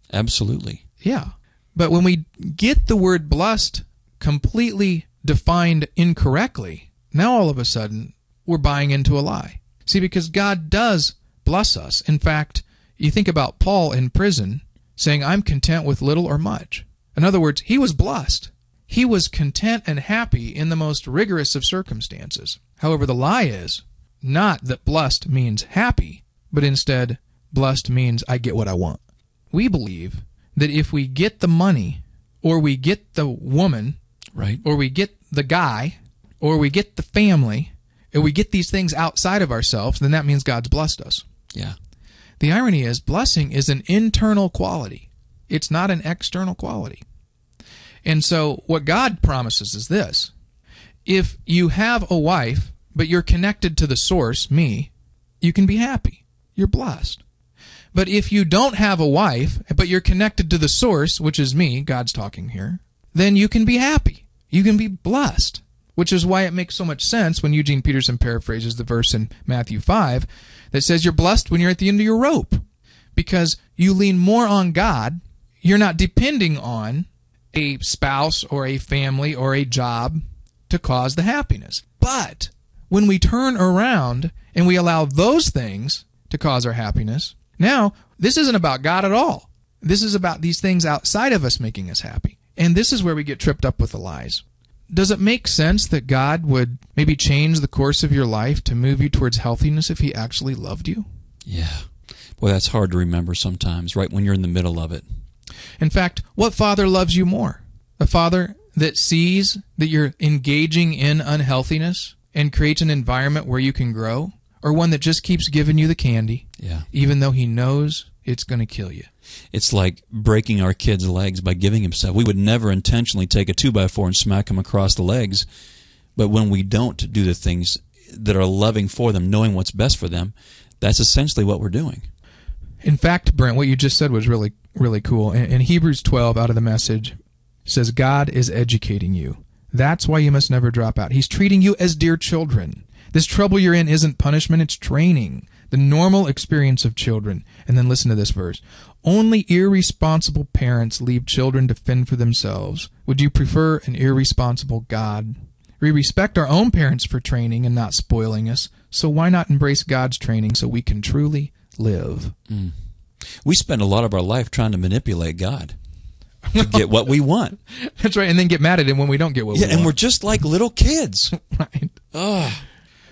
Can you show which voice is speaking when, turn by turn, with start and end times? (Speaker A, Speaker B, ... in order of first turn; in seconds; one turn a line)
Speaker A: 0.1-0.8
Speaker B: 1.0-29.0
Speaker B: 29.5-34.0
Speaker A: 34.4-34.6
Speaker B: 34.6-41.2
Speaker B: 42.4-47.0
Speaker B: 48.0-50.3
Speaker B: 51.1-57.2
Speaker B: 57.9-72.6
Speaker B: 73.2-101.1
Speaker A: 101.5-101.9
Speaker A: 102.4-105.0
Speaker B: 105.8-119.1
Speaker A: 116.6-116.9
Speaker A: 119.5-125.5
Speaker A: 126.2-132.1
Speaker B: 132.8-162.3
Speaker A: 162.5-162.8
Speaker A: 163.4-165.8
Speaker B: 166.5-167.2
Speaker A: 166.6-167.6
Speaker B: 167.7-170.0
Speaker A: 169.5-171.3
Speaker B: 171.3-171.9
Speaker A: 172.1-172.7